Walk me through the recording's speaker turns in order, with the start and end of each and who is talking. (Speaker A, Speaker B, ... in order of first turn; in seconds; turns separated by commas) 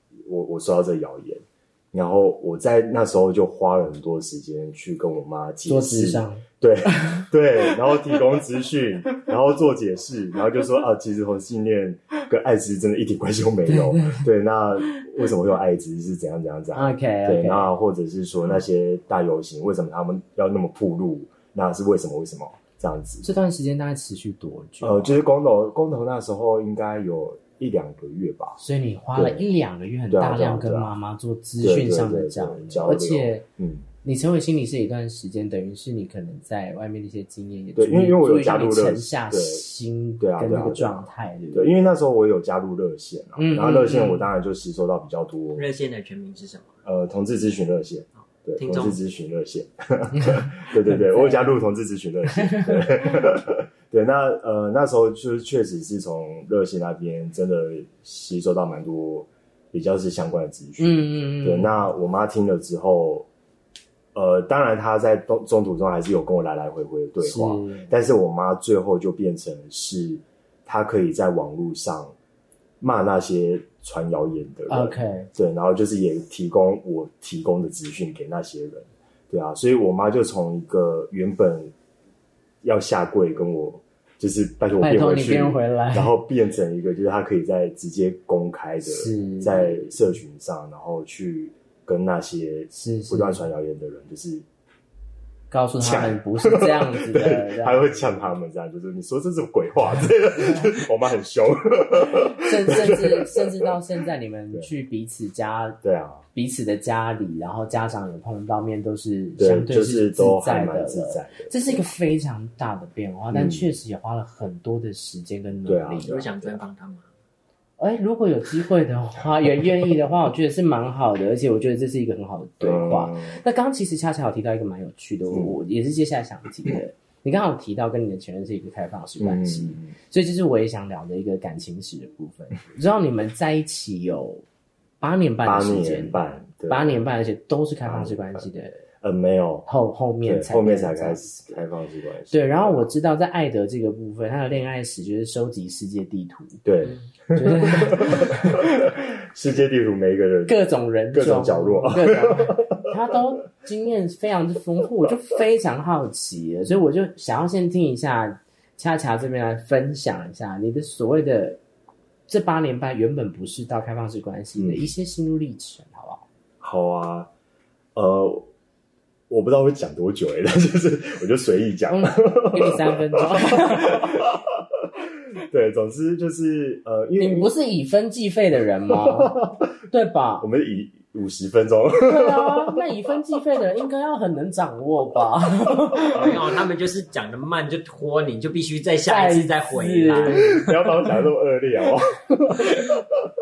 Speaker A: 0.3-23.3, Speaker B: 5.7-7.2, Speaker B: 13.7-14.3, Speaker B: 16.7-17.7, Speaker B: 23.2-25.1, Speaker A: 24.8-28.6, Speaker B: 28.6-33.4, Speaker A: 29.2-29.5, Speaker A: 30.1-30.9, Speaker A: 31.6-33.9, Speaker B: 34.0-41.7, Speaker A: 37.8-39.6, Speaker A: 40.2-45.7, Speaker B: 43.4-44.3, Speaker C: 45.5-46.8, Speaker A: 46.9-63.3, Speaker C: 48.6-49.0, Speaker B: 50.1-51.6, Speaker B: 52.3-53.2, Speaker B: 60.8-61.8, Speaker A: 64.1-72.2, Speaker B: 67.2-67.9, Speaker A: 72.8-81.7, Speaker B: 74.7-75.3, Speaker A: 82.6-94.5, Speaker B: 84.8-86.2, Speaker B: 88.8-89.9, Speaker B: 92.7-93.4, Speaker B: 95.5-98.3, Speaker A: 95.8-103.7, Speaker B: 102.1-105.8, Speaker A: 105.8-106.3, Speaker B: 106.3-116.1, Speaker A: 109.4-111.9, Speaker A: 113.3-113.7, Speaker A: 115.7-116.6, Speaker C: 116.0-117.1, Speaker B: 117.8-134.4, Speaker A: 122.6-123.4, Speaker A: 125.3-125.6, Speaker A: 129.2-129.9, Speaker B: 135.0-138.8, Speaker A: 135.4-137.0, Speaker A: 137.8-138.5, Speaker A: 139.0-139.7, Speaker B: 139.7-141.6, Speaker A: 140.2-142.9, Speaker B: 142.3-146.6, Speaker A: 146.6-152.9, Speaker B: 147.3-148.7, Speaker B: 150.5-161.6, Speaker B: 162.3-166.2, Speaker A: 164.6-164.9, Speaker A: 166.6-167.3, Speaker A: 168.0-168.5, Speaker A: 169.3-174.8, Speaker B: 171.9-174.2, Speaker A: 175.4-177.5, Speaker B: 177.2-179.4, Speaker A: 178.9-179.8, Speaker B: 179.9-180.5, Speaker A: 180.4-182.8, Speaker B: 182.0-186.3, Speaker C: 186.1-190.5, Speaker B: 189.1-190.7, Speaker A: 190.4-193.3